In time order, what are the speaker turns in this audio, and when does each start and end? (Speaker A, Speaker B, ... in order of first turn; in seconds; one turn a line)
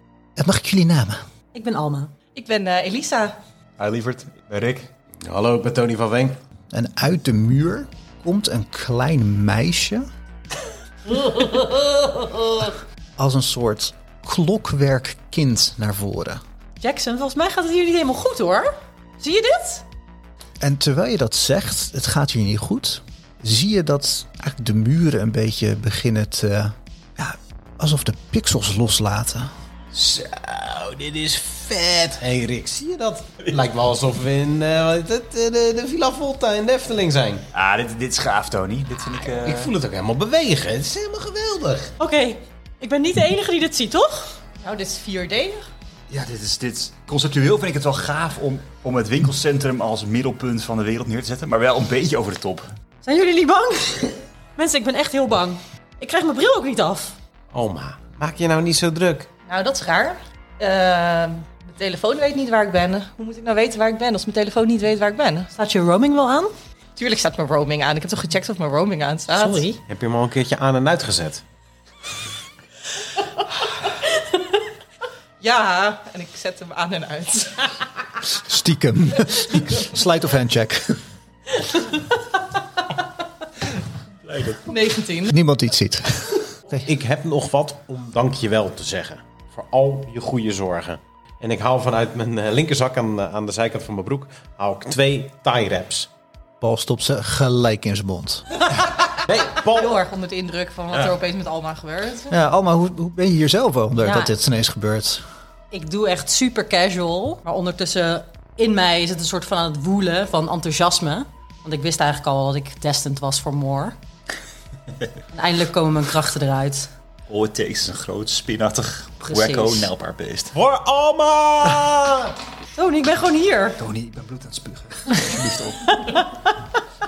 Speaker A: 0.4-1.2
Speaker B: 1.5-2.1
Speaker C: 2.3-3.3
Speaker D: 3.8-4.8
Speaker E: 5.2-6.4
Speaker A: 6.7-10.1
Speaker A: 13.2-16.4
Speaker B: 16.8-19.8
Speaker A: 20.6-29.5
Speaker E: 29.9-37.5
Speaker D: 37.5-39.7
Speaker E: 39.4-41.9
Speaker B: 42.0-44.3
Speaker C: 44.6-45.6
Speaker D: 46.1-52.7
Speaker B: 53.0-57.1
Speaker E: 57.5-59.3
Speaker C: 59.5-65.5
Speaker B: 65.5-66.5
Speaker C: 67.0-69.7
Speaker B: 69.3-69.8
Speaker E: 69.9-71.4
Speaker C: 75.4-77.8
Speaker A: 78.3-81.0
Speaker C: 84.5-85.3
Speaker A: 85.3-86.4
Speaker E: 86.7-96.1
Speaker A: 96.6-98.6
Speaker E: 99.2-100.0
Speaker C: 99.7-102.3
Speaker A: 102.3-105.2
Speaker B: 104.0-104.3
Speaker B: 105.7-114.0
Speaker B: 115.3-116.9
Speaker D: 117.3-120.5
Speaker B: 119.2-119.9
Speaker E: 120.5-122.3
Speaker B: 122.7-123.8
Speaker A: 123.8-125.3
Speaker D: 125.2-125.7
Speaker B: 126.0-126.2